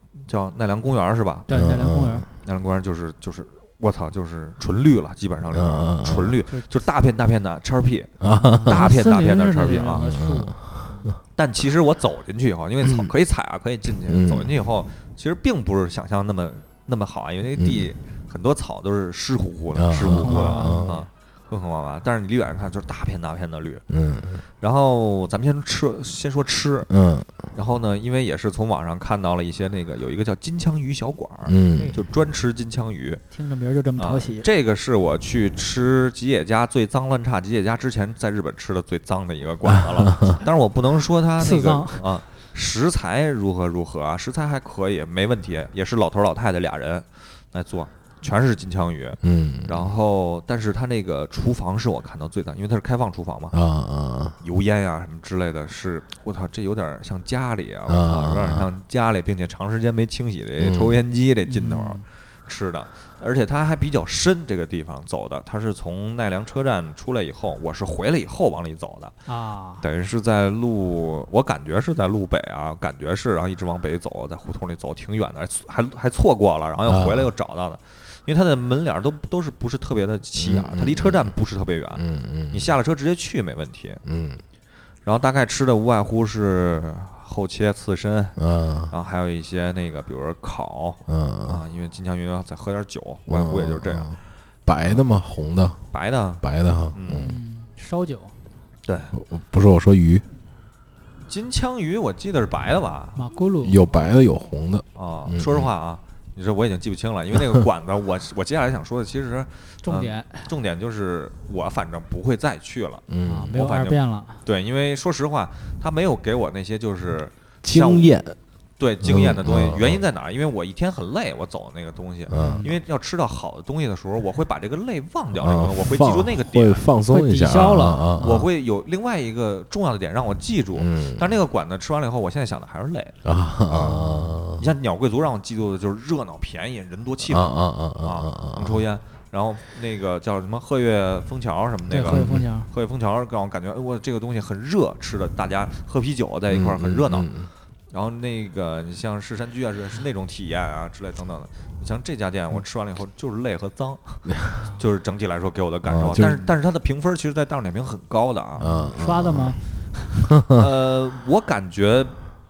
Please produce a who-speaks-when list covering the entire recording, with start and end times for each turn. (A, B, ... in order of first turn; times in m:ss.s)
0:00.2-0:01.5 A
0:01.5-0:02.2 B
0:01.5-0:02.3 C
0:02.4-0:10.0 A
0:05.5-0:06.4 C
0:08.2-0:08.8 C
0:08.3-0:11.1 B
0:10.0-0:11.2 C
0:11.4-0:23.8 A
0:12.8-0:13.1 C
0:14.1-0:14.5 C
0:17.6-0:17.9 C
0:19.7-0:21.0 C
0:20.0-0:21.0 B
0:23.9-0:24.4 C
0:24.6-0:26.9 A
0:26.9-0:27.3 C
0:27.5-0:33.2 A
0:31.4-0:31.9 C
0:31.8-0:32.0 B
0:33.3-0:34.4 B
0:34.0-0:53.6 A
0:39.7-0:40.3 C
0:41.4-0:42.0 B
0:49.2-0:49.9 C
0:53.5-0:54.4 C
0:54.4-1:09.2 A
0:57.9-0:58.7 C
1:00.6-1:01.0 C
1:01.4-1:02.0 B
1:09.3-1:09.8 B
1:09.8-1:24.0 A
1:16.9-1:17.3 C
1:20.3-1:21.2 C
1:21.9-1:22.7 C
1:24.0-1:24.4 C
1:25.0-1:34.2 A
1:28.4-1:28.9 C
1:31.1-1:31.6 C
1:33.3-1:35.8 C
1:35.9-1:37.3 A
1:36.4-1:37.4 C
1:37.2-1:38.3 B
1:38.8-1:39.1 A
1:39.1-1:40.2 C
1:41.3-1:43.2 A
1:43.2-1:43.8 B
1:43.6-1:45.7 C
1:45.0-1:58.1 A
1:49.8-1:50.5 B
1:53.1-1:53.6 C
1:53.2-1:54.4 B
1:57.6-1:58.4 C
1:58.8-2:06.8 A
1:59.0-2:00.0 C
2:02.3-2:02.6 C
2:02.3-2:02.7 B
2:05.4-2:08.4 C
2:07.1-2:08.4 B
2:08.2-2:14.0 A
2:10.8-2:11.4 C
2:13.2-2:14.7 C
2:13.8-2:14.4 B
2:14.5-2:27.3 A
2:17.3-2:18.8 C
2:21.9-2:22.7 B
2:22.0-2:22.4 C
2:26.5-2:27.5 C
2:27.9-2:38.8 A
2:35.8-2:36.4 C
2:38.6-2:39.6 C
2:38.6-2:40.3 B
2:40.4-2:40.6 C
2:40.5-2:42.2 A